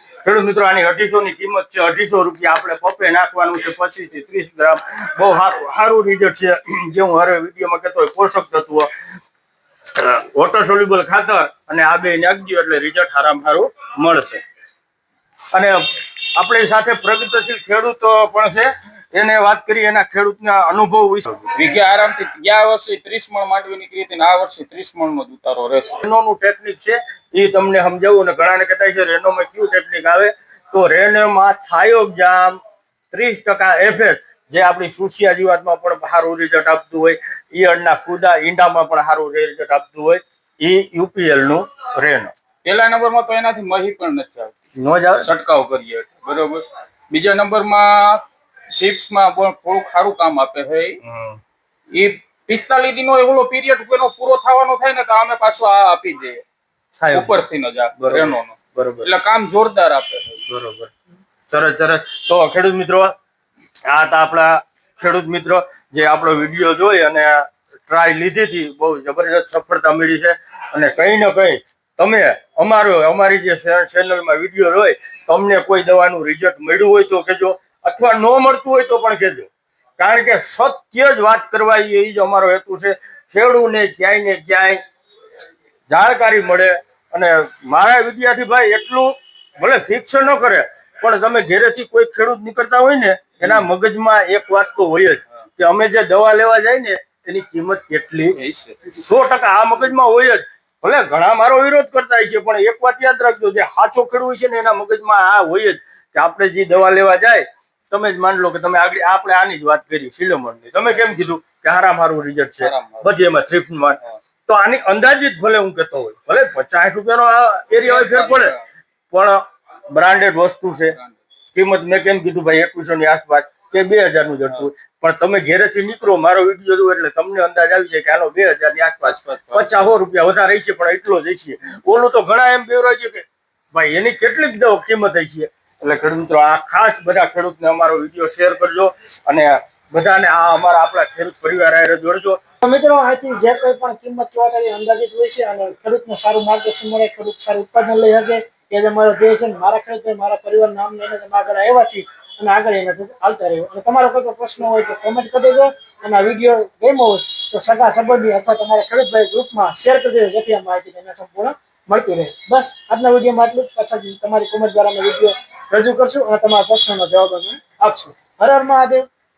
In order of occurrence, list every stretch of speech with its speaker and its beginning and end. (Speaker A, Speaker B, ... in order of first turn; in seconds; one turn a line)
Speaker A: 0.2-8.9
Speaker A: 9.9-14.4
Speaker A: 15.5-21.5
Speaker B: 21.5-26.0
Speaker A: 26.0-32.6
Speaker A: 33.1-42.3
Speaker B: 42.6-44.5
Speaker A: 44.8-45.3
Speaker B: 45.2-48.2
Speaker B: 48.8-51.0
Speaker A: 51.0-51.4
Speaker B: 51.9-56.4
Speaker A: 57.0-57.4
Speaker B: 57.1-60.4
Speaker A: 58.0-59.1
Speaker A: 60.5-60.9
Speaker A: 61.5-63.1
Speaker A: 63.9-84.8
Speaker A: 85.9-98.4
Speaker B: 98.3-98.8
Speaker A: 98.9-118.5
Speaker B: 112.6-113.1
Speaker B: 117.8-118.6
Speaker A: 119.1-121.0
Speaker B: 120.9-121.2
Speaker A: 121.5-142.4
Speaker B: 129.0-129.9
Speaker C: 142.6-169.0